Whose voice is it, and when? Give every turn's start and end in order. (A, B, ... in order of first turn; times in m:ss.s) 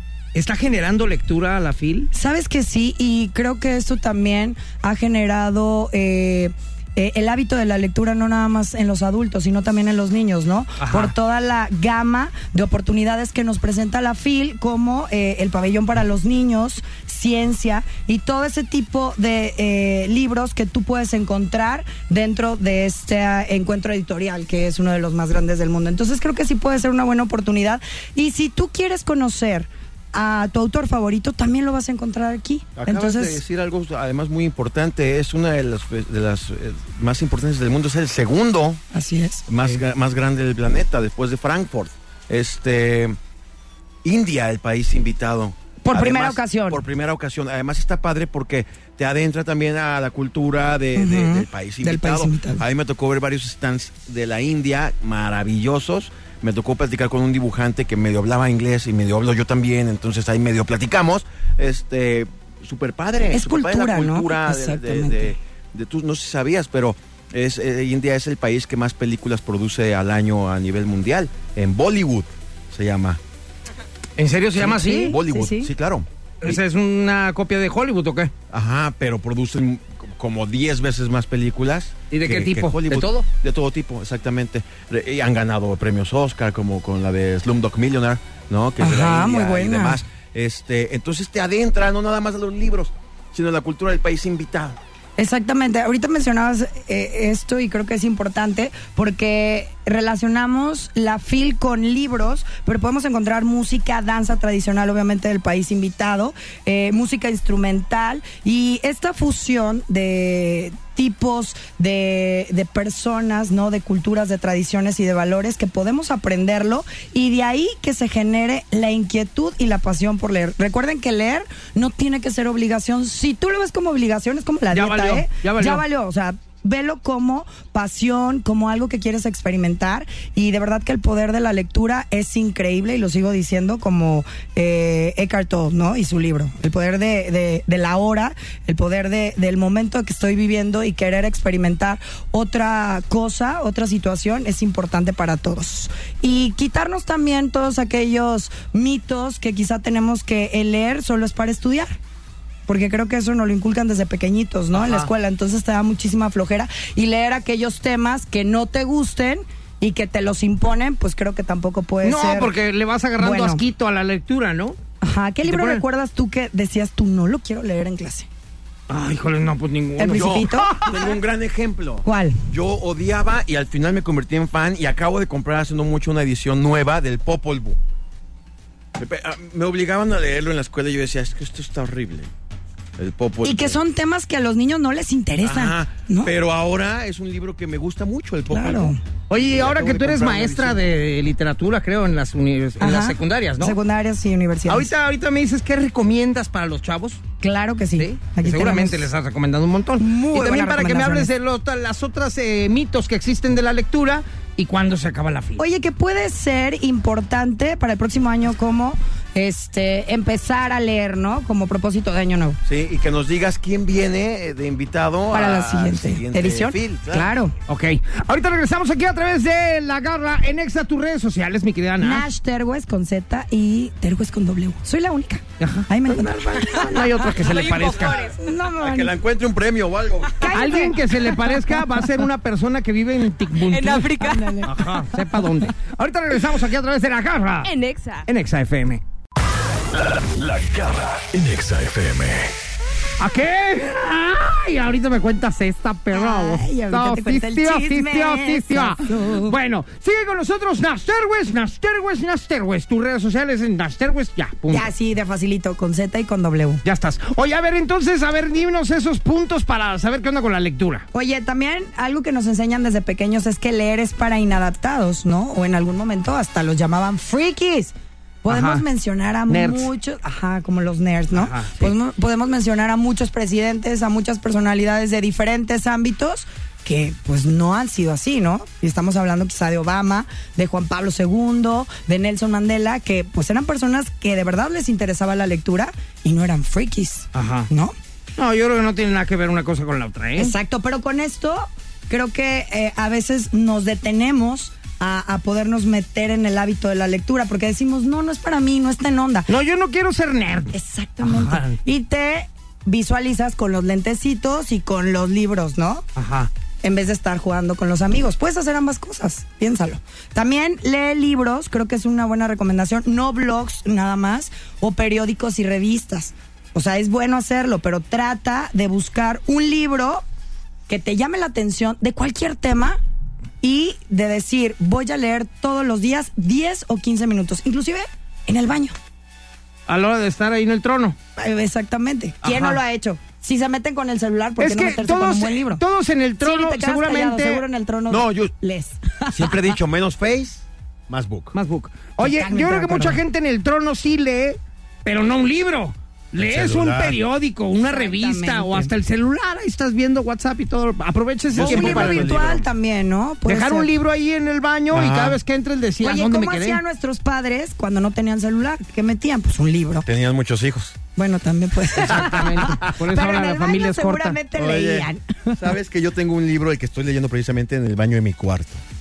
0:00.3-0:02.1 A
0:02.1-0:33.4 B
0:10.8-0:11.1 A
0:32.8-0:38.8 C
0:38.9-0:39.4 B
0:39.5-0:43.2 C
0:44.0-1:13.2 C
0:45.8-0:46.8 B
0:51.0-0:52.6 B
1:03.3-1:05.4 B
1:14.2-1:15.2 A
1:14.6-1:16.6 C
1:14.7-1:15.7 B
1:16.4-1:18.3 A
1:18.5-1:34.8 C
1:22.1-1:23.3 A
1:28.8-1:30.0 B
1:35.2-2:32.0 B
2:04.7-2:05.8 A
2:32.7-2:42.5 B
2:34.7-2:35.1 A
2:42.0-2:44.8 A
2:43.2-2:43.6 B
2:45.0-2:48.3 B
2:45.4-2:45.8 A
2:48.9-2:51.1 A
2:50.0-2:50.8 B
2:50.1-2:57.8 C
2:52.0-2:52.4 B
2:59.0-3:02.3 C
3:03.0-3:03.8 C
3:03.4-3:06.3 B
3:05.4-3:10.8 C
3:08.5-3:09.0 B
3:09.3-3:13.8 A
3:12.8-3:14.9 B
3:14.7-3:17.2 A
3:17.4-3:19.1 B
3:18.0-3:25.6 A
3:20.0-3:21.3 B
3:25.6-3:32.6 B
3:32.6-3:37.3 C
3:35.3-3:37.5 B
3:37.7-3:42.3 A
3:42.0-3:47.4 B
3:45.6-3:48.2 A
3:47.3-3:48.4 D
3:48.2-3:49.2 B
3:48.8-3:50.5 C
3:50.4-3:52.0 B
3:50.5-3:57.7 A
3:53.7-3:54.6 D
3:54.2-3:55.5 B
3:57.6-3:58.3 D
3:58.3-3:59.0 A
3:59.9-4:02.5 E
4:03.2-4:14.9 A
4:06.1-4:09.6 B
4:14.7-4:16.8 B
4:16.8-4:21.0 A
4:21.1-4:48.0 B
4:28.5-4:28.8 A
4:29.5-4:29.9 A
4:31.3-4:31.9 A
4:47.3-4:47.7 A
4:48.4-4:50.5 A
4:50.4-4:59.5 B
4:59.5-5:01.8 A
5:00.7-5:06.0 B
5:06.2-5:06.5 A
5:06.8-5:20.2 B
5:20.9-5:23.0 B
5:23.6-5:29.0 B
5:29.9-5:31.2 A
5:31.4-5:35.8 B
5:32.4-5:32.8 A
5:34.6-5:37.6 A
5:36.4-5:39.7 B
5:38.1-5:38.5 C
5:39.3-5:41.5 C
5:41.5-5:52.5 A
5:42.2-5:43.2 B
5:46.4-5:47.2 C
5:47.8-5:48.9 B
5:51.5-5:52.6 C
5:51.6-5:53.9 B
5:53.4-5:56.8 A
5:54.9-5:55.4 C
5:56.0-6:00.1 B
6:00.0-6:01.0 C
6:01.1-6:05.7 B
6:02.1-6:04.4 A
6:02.1-6:02.9 C
6:04.5-6:08.8 C